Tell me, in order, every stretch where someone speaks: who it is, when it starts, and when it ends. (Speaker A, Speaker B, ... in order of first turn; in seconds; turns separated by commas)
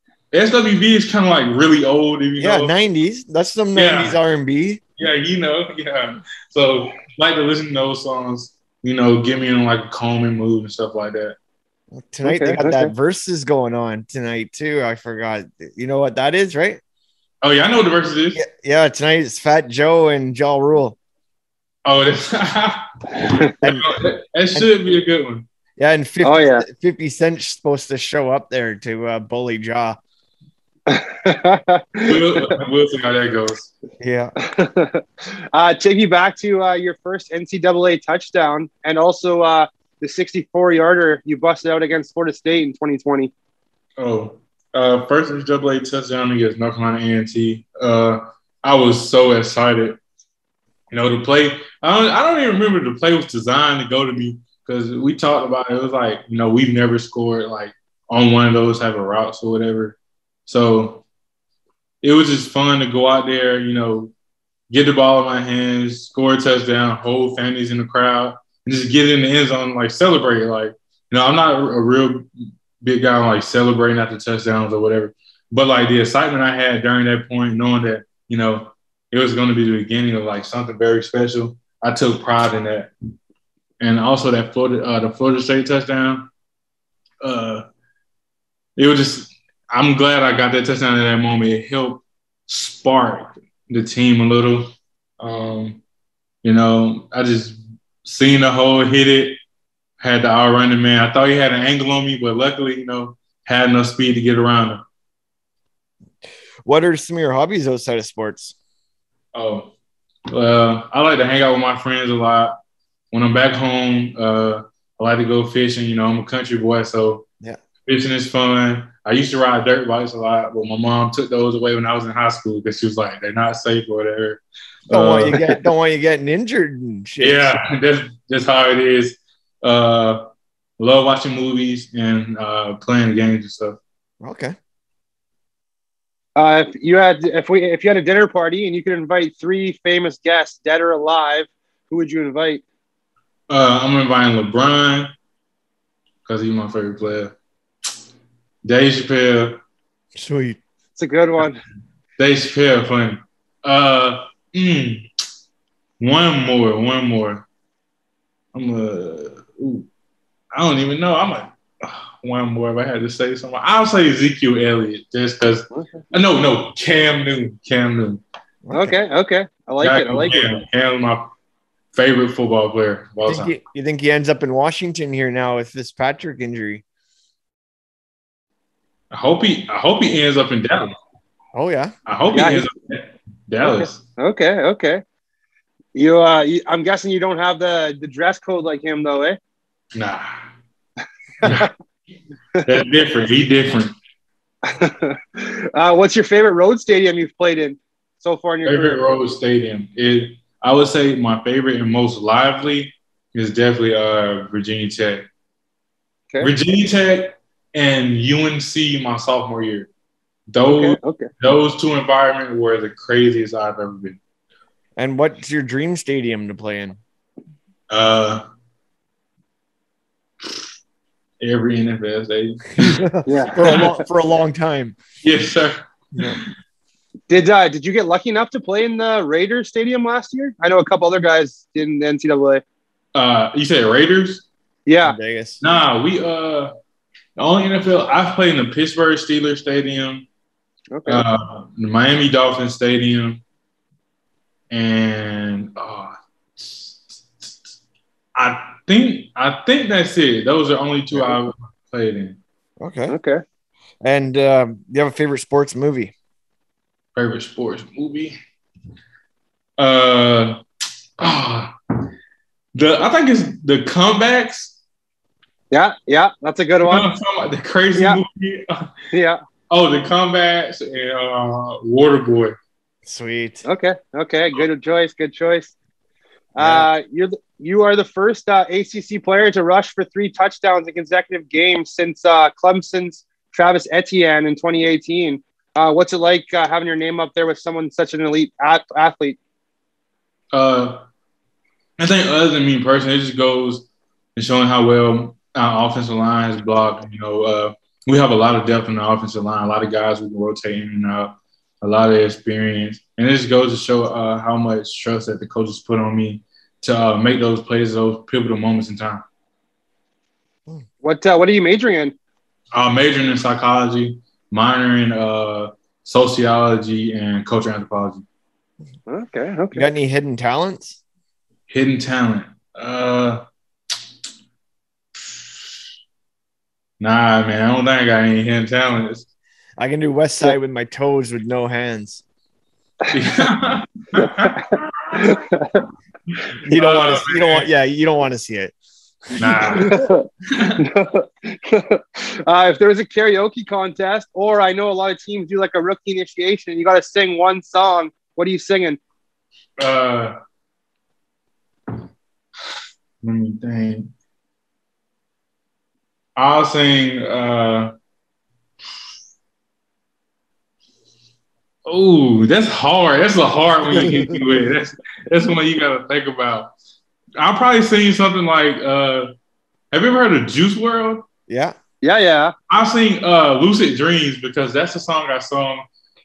Speaker A: 0.3-2.7, Speaker B: 2.4-4.8, Speaker A: 3.8-4.2, Speaker A: 5.0-11.4, Speaker B: 11.9-16.8, Speaker C: 12.2-12.9, Speaker A: 17.4-18.4, Speaker B: 18.4-21.0, Speaker A: 21.9-25.5, Speaker B: 23.6-24.0, Speaker B: 25.8-30.0, Speaker C: 26.2-26.7, Speaker C: 30.9-32.2, Speaker A: 32.0-33.7, Speaker B: 34.0-34.3, Speaker C: 34.4-35.0, Speaker C: 35.5-43.3, Speaker A: 44.0-50.0, Speaker A: 50.9-61.0, Speaker A: 62.0-64.1, Speaker A: 64.7-72.3, Speaker A: 72.8-82.9, Speaker A: 83.8-86.3, Speaker A: 87.2-87.7, Speaker A: 88.8-95.8, Speaker A: 96.4-99.4, Speaker A: 100.0-104.8, Speaker B: 106.7-108.5, Speaker A: 109.3-109.7, Speaker A: 110.3-112.5, Speaker A: 113.1-117.2, Speaker A: 117.9-125.4, Speaker B: 124.9-127.6, Speaker A: 127.2-130.2, Speaker A: 130.8-133.8, Speaker B: 134.2-134.6, Speaker C: 136.4-142.6, Speaker A: 143.5-145.1, Speaker A: 146.3-147.3, Speaker A: 148.6-149.6, Speaker B: 150.2-150.6, Speaker C: 151.0-151.6, Speaker A: 152.2-155.1, Speaker A: 156.0-157.4, Speaker A: 158.5-159.9, Speaker A: 160.5-168.2, Speaker B: 168.6-168.9, Speaker C: 168.7-170.6, Speaker A: 169.8-171.3, Speaker A: 171.9-173.6, Speaker B: 173.2-176.8, Speaker A: 179.1-180.9, Speaker B: 181.5-181.9, Speaker A: 182.1-184.0, Speaker C: 182.3-182.7, Speaker C: 183.6-185.0, Speaker C: 185.9-189.4, Speaker A: 189.9-190.3, Speaker A: 191.4-191.7, Speaker A: 192.7-193.9, Speaker C: 194.7-199.0, Speaker A: 198.7-205.2, Speaker A: 206.4-209.9, Speaker A: 210.5-214.2, Speaker C: 210.6-211.3, Speaker B: 215.0-217.0, Speaker A: 217.9-218.4, Speaker A: 221.4-223.1, Speaker B: 222.8-225.0, Speaker C: 223.3-224.0, Speaker A: 225.2-226.2, Speaker B: 226.1-226.4, Speaker C: 227.3-232.6, Speaker A: 233.2-234.4, Speaker C: 234.9-235.2, Speaker B: 235.0-235.6, Speaker A: 235.6-236.7, Speaker A: 237.4-240.3, Speaker C: 240.9-241.2, Speaker A: 241.1-243.4, Speaker A: 244.7-247.7, Speaker A: 248.4-252.4, Speaker B: 252.8-253.2, Speaker C: 253.1-253.4, Speaker B: 254.0-256.1, Speaker A: 257.2-258.4, Speaker A: 259.8-260.6, Speaker A: 261.2-261.7, Speaker A: 262.8-264.8, Speaker C: 265.7-267.1, Speaker A: 266.9-268.9, Speaker C: 269.1-269.4, Speaker A: 269.7-272.6, Speaker B: 273.1-273.6, Speaker C: 273.7-275.7, Speaker C: 276.6-289.4, Speaker B: 276.6-276.9, Speaker A: 290.5-291.0, Speaker A: 292.0-309.2, Speaker C: 311.0-312.1, Speaker A: 312.7-318.2, Speaker C: 319.1-319.9, Speaker B: 319.7-321.0, Speaker A: 321.7-323.4, Speaker A: 327.0-329.3, Speaker B: 329.8-332.2, Speaker A: 333.1-335.4, Speaker C: 335.1-335.8, Speaker A: 336.3-337.7, Speaker B: 336.6-338.7, Speaker A: 339.4-340.8, Speaker C: 339.8-340.3, Speaker C: 340.8-349.0, Speaker A: 349.8-350.4, Speaker A: 353.2-354.1, Speaker A: 356.4-357.9, Speaker A: 361.9-366.7, Speaker B: 363.9-364.4, Speaker A: 367.4-369.3, Speaker A: 369.9-371.3, Speaker B: 371.5-371.8, Speaker C: 372.0-372.5, Speaker A: 372.7-375.8